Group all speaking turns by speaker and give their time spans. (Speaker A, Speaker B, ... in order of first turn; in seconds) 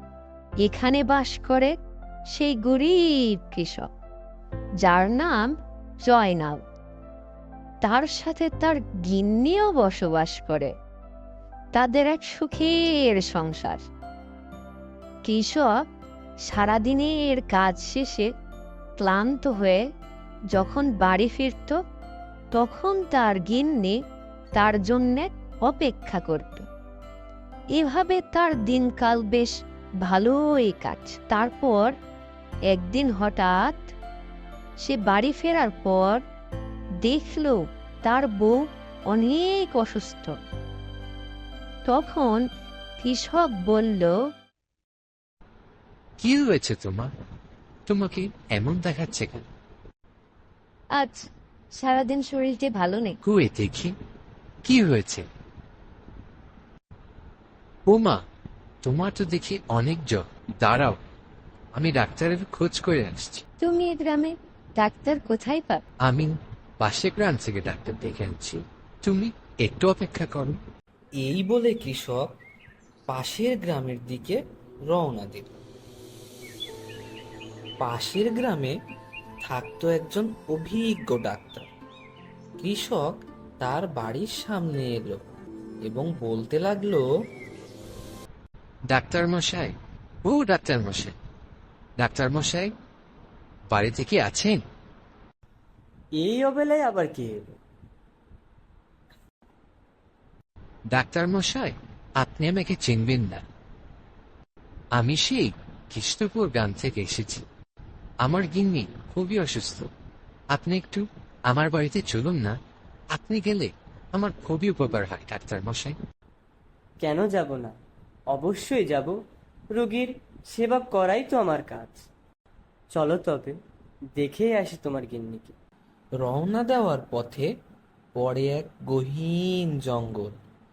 Speaker A: 0.6-1.7, 2.3-3.9, 4.8-6.6, 7.8-10.7, 11.7-13.8, 15.2-15.8, 16.5-18.3, 19.0-19.8, 20.5-21.8, 22.5-24.0, 24.5-26.6, 27.7-31.9, 32.7-33.9, 34.8-36.2, 37.0-40.3, 41.8-42.4, 43.0-44.1, 50.9-53.2, 63.6-65.8
Speaker B: 46.2-47.1, 47.9-49.5, 53.2-53.9, 54.6-55.2, 57.9-58.2, 58.8-61.0, 61.7-63.4, 66.0-70.6, 88.9-91.1, 92.0-92.7, 93.7-94.6, 100.9-103.4, 104.9-107.5, 108.2-109.9, 110.5-112.6, 113.1-116.0
Speaker C: 71.2-72.3, 73.1-74.4, 74.9-75.6, 77.8-78.8, 79.4-81.7, 82.6-85.2, 85.8-87.0, 126.2-127.5, 128.2-130.3
Speaker D: 96.2-97.5, 117.0-117.7, 118.3-119.1, 119.7-122.0, 122.9-123.6, 124.2-125.5